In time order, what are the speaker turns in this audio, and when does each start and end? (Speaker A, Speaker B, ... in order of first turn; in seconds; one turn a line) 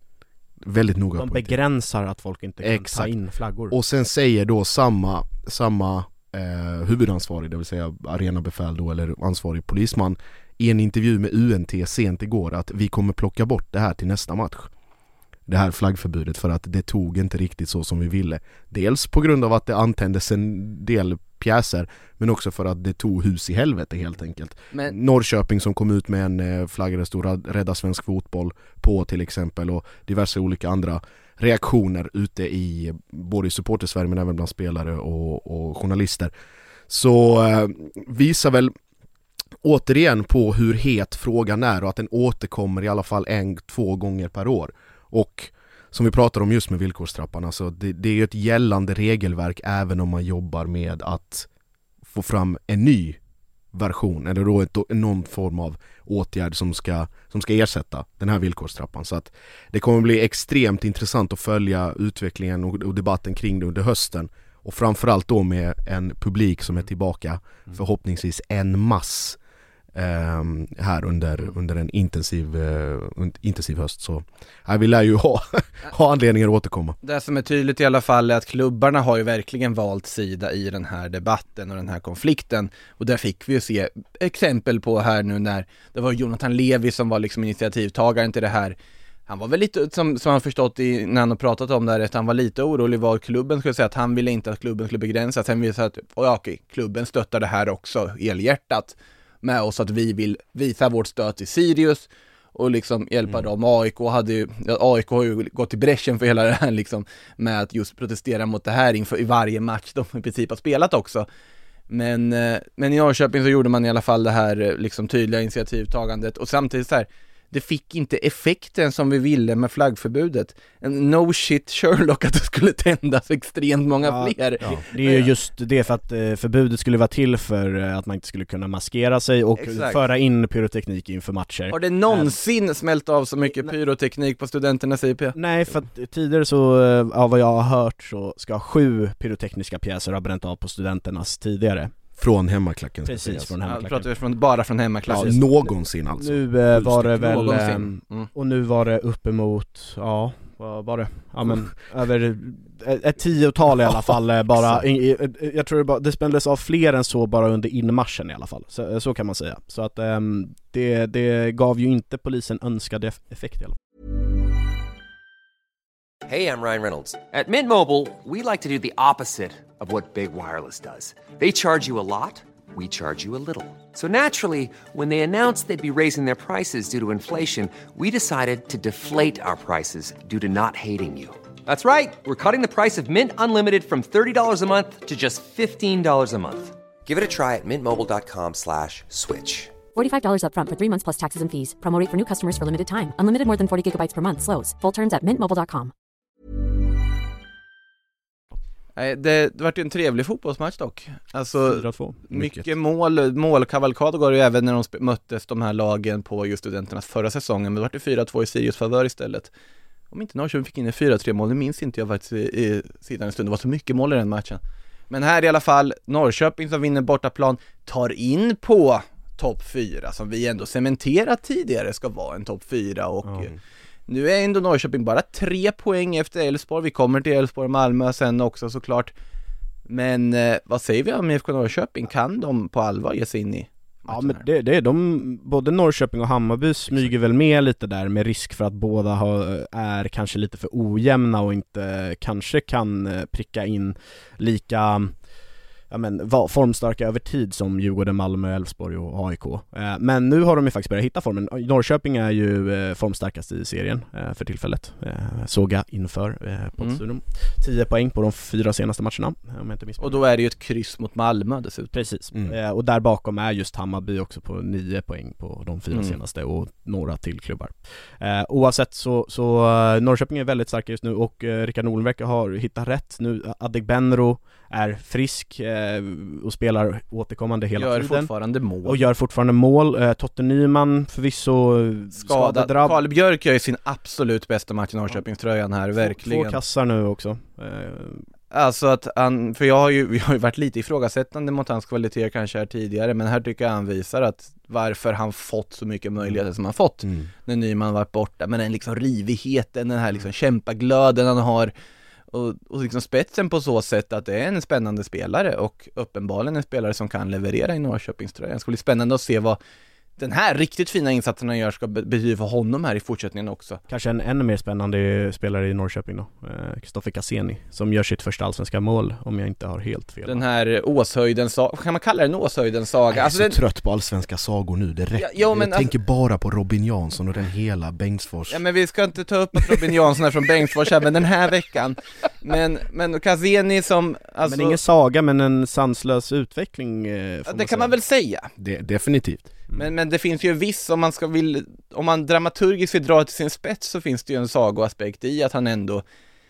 Speaker A: 0.6-1.6
Speaker B: 1.2-3.8
Speaker A: 2.6-3.1
Speaker A: 3.7-14.7
Speaker A: 15.5-36.3
Speaker A: 36.9-38.7
Speaker A: 39.6-51.5
Speaker A: 52.1-53.2
Speaker A: 53.7-69.4
Speaker A: 69.9-77.0
Speaker C: 77.0-88.7
Speaker C: 89.3-111.2
Speaker C: 111.9-125.3
Speaker B: 124.0-132.3
Speaker C: 129.6-130.0
Speaker C: 131.7-135.3
Speaker B: 135.3-141.9
Speaker A: 142.2-143.5
Speaker B: 143.0-144.1
Speaker C: 143.7-145.5
Speaker A: 145.1-147.1
Speaker B: 145.1-145.4
Speaker B: 146.2-163.8
Speaker C: 147.1-148.3
Speaker A: 154.5-154.8
Speaker D: 166.2-189.8
Speaker E: 189.9-195.9
Speaker C: 198.9-209.5
Speaker B: 201.6-202.2
Speaker A: 202.3-202.7
Speaker C: 210.1-223.5
Speaker C: 224.1-229.1
Speaker C: 229.9-234.4
Speaker B: 234.1-245.2
Speaker B: 245.9-260.2
Speaker C: 260.0-261.9
Speaker B: 261.9-278.3
Speaker C: 265.9-266.2
Speaker C: 277.8-279.0
Speaker B: 278.8-283.0
Speaker C: 282.1-286.6
Speaker B: 286.0-288.2
Speaker C: 288.5-301.7
Speaker A: 297.0-297.3
Speaker C: 302.3-309.6
Speaker C: 310.2-313.8
Speaker B: 313.9-320.4
Speaker C: 320.2-323.6
Speaker A: 323.1-328.6
Speaker C: 325.2-325.9
Speaker C: 328.5-334.8
Speaker B: 334.4-337.9
Speaker C: 337.4-338.5
Speaker A: 338.6-339.5
Speaker C: 339.7-346.0